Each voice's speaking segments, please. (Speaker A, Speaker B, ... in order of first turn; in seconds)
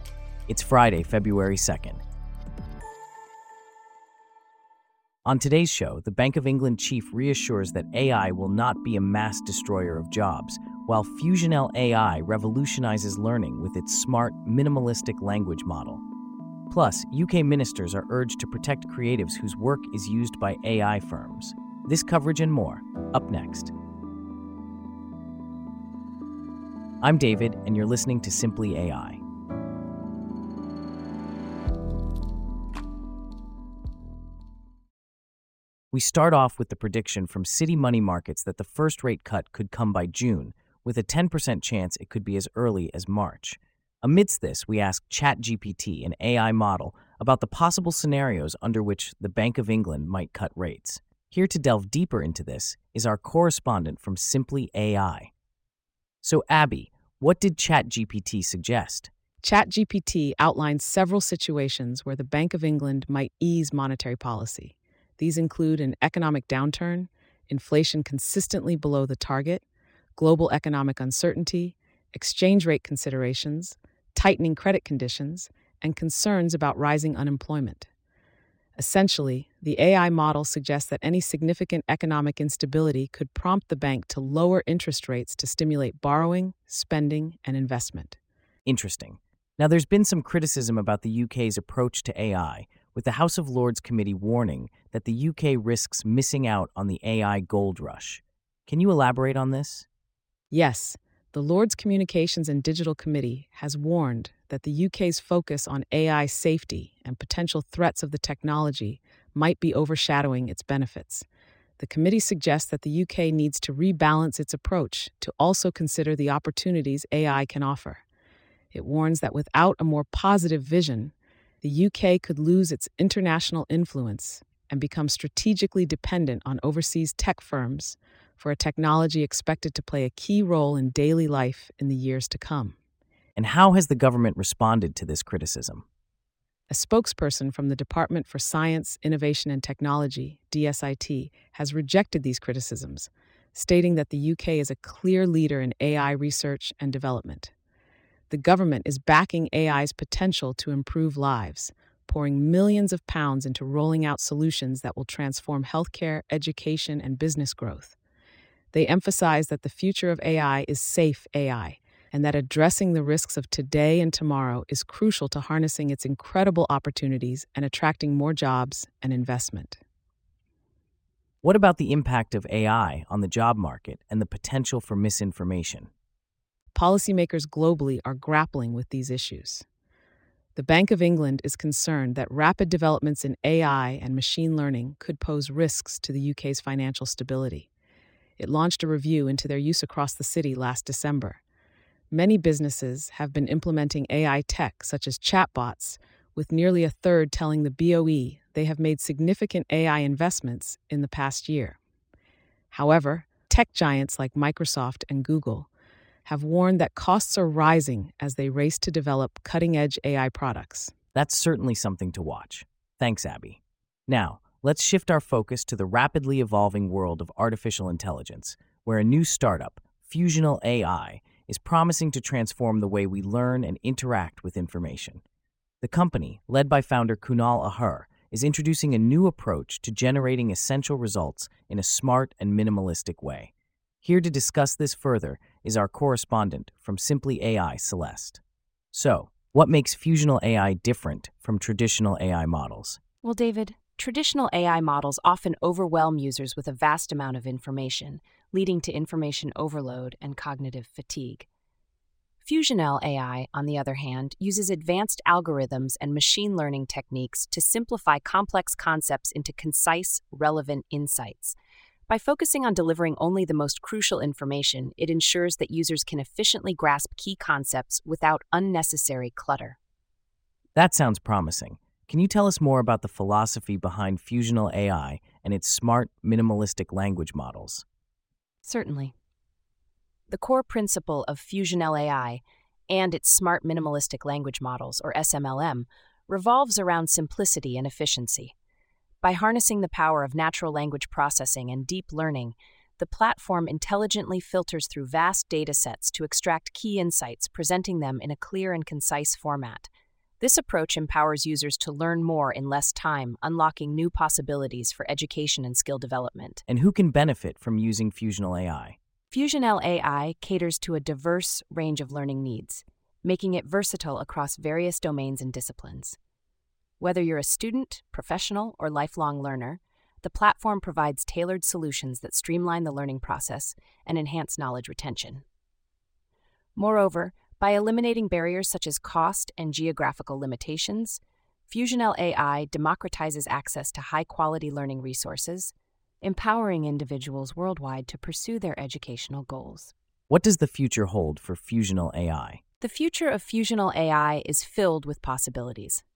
Speaker A: 0.5-2.0, 5.2-16.0, 16.7-23.7, 27.0-29.2, 35.9-55.3, 56.2-59.1, 88.7-99.8, 133.4-135.8, 171.4-175.9, 211.1-225.2, 225.8-233.5, 234.0-238.4, 238.9-243.0, 270.8-277.8, 306.7-308.9, 340.3-342.6
Speaker B: 59.4-69.6, 70.2-77.9, 78.8-88.2, 100.5-111.3, 111.8-118.0, 118.7-132.7, 136.7-147.5, 148.3-157.9, 158.7-169.8, 176.7-179.6, 180.6-187.7, 188.4-191.4, 192.1-201.8, 202.7-205.7, 206.2-210.9
Speaker C: 243.2-251.4, 252.4-261.5, 262.1-269.8, 278.6-279.1, 280.3-288.5, 289.2-299.9, 300.4-306.6, 309.3-316.1, 317.0-325.4, 326.8-339.9, 342.8-346.0